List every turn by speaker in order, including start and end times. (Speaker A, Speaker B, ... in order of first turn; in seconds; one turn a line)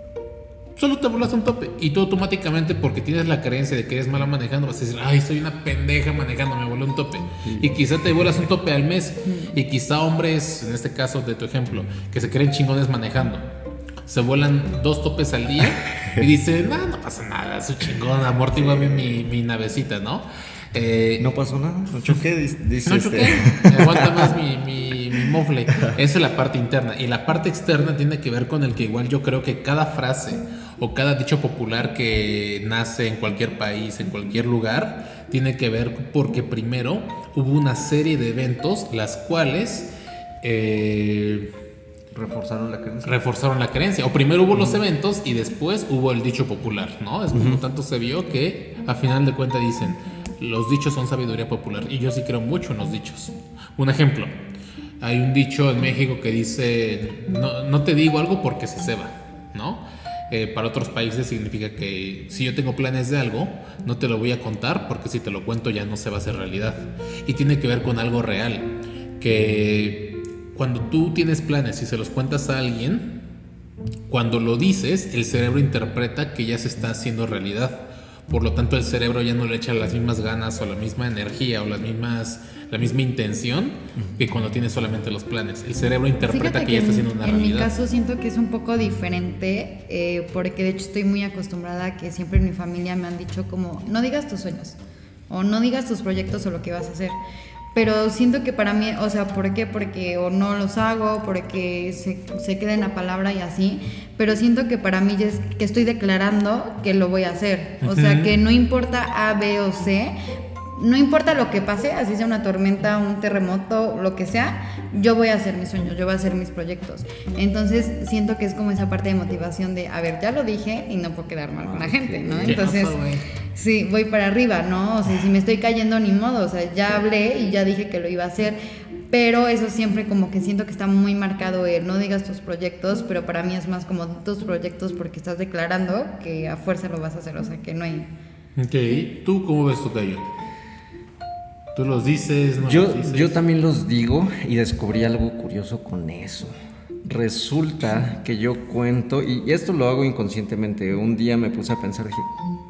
Speaker A: 0.8-13.4
Speaker A: 14.1-21.3
Speaker B: 16.0-16.2
Speaker B: 18.5-19.2
Speaker B: 21.2-24.4
Speaker A: 22.8-39.9
Speaker A: 40.4-41.5
Speaker B: 42.1-43.2
Speaker A: 43.0-54.4
Speaker B: 44.5-44.8
Speaker B: 47.3-47.6
Speaker A: 55.0-73.2
Speaker A: 74.1-87.7
Speaker C: 86.2-94.8
Speaker C: 95.3-97.2
Speaker C: 97.7-110.1
Speaker A: 107.8-108.3
Speaker C: 110.8-123.0
Speaker B: 121.6-122.7
Speaker A: 122.4-123.2
Speaker C: 123.5-128.6
Speaker C: 129.1-138.1
Speaker A: 138.6-140.2
Speaker A: 141.7-143.4
Speaker B: 142.7-146.5
Speaker B: 147.0-152.3